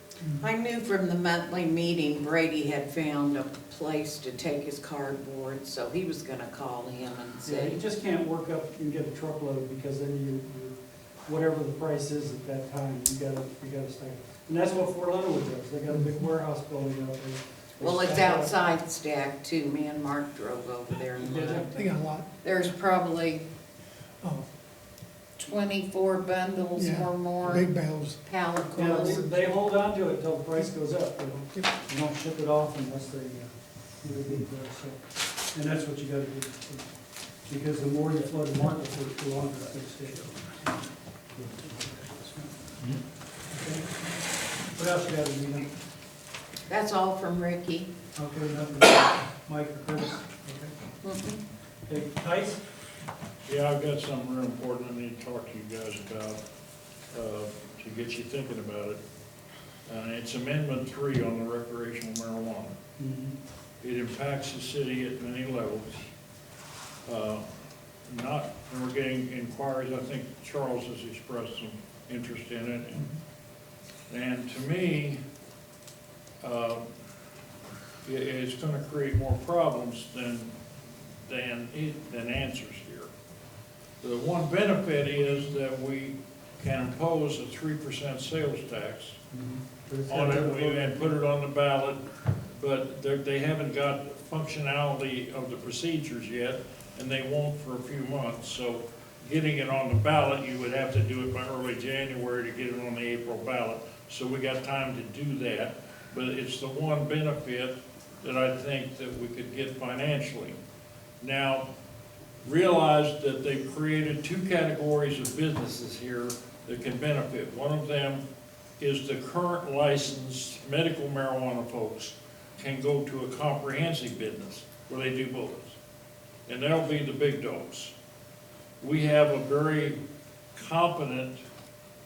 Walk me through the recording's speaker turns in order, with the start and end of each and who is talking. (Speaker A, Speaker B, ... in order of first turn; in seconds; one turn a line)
Speaker A: 0.4-7.8
Speaker B: 7.4-18.5
Speaker A: 17.8-21.7
Speaker B: 21.2-22.0
Speaker C: 21.7-22.3
Speaker A: 22.4-23.4
Speaker A: 25.4-27.7
Speaker C: 26.8-29.4
Speaker A: 28.3-29.2
Speaker B: 28.8-36.9
Speaker B: 37.5-40.7
Speaker B: 41.4-42.5
Speaker B: 43.5-44.2
Speaker B: 44.7-45.7
Speaker A: 46.7-47.9
Speaker B: 48.2-50.7
Speaker A: 51.0-51.4
Speaker B: 51.9-52.6
Speaker D: 53.5-56.4
Speaker D: 57.1-59.0
Speaker D: 59.9-62.8
Speaker B: 63.0-63.4
Speaker D: 63.8-66.0
Speaker D: 67.1-67.4
Speaker D: 68.1-73.1
Speaker D: 74.1-75.2
Speaker D: 76.4-76.8
Speaker D: 78.0-80.5
Speaker D: 81.3-83.1
Speaker D: 84.0-89.2
Speaker B: 89.3-91.1
Speaker D: 90.1-92.0
Speaker D: 92.6-110.6
Speaker D: 111.2-111.7
Speaker D: 112.4-118.2
Speaker D: 118.8-125.8
Speaker D: 126.5-127.9
Speaker D: 128.8-130.0
Speaker D: 130.6-131.4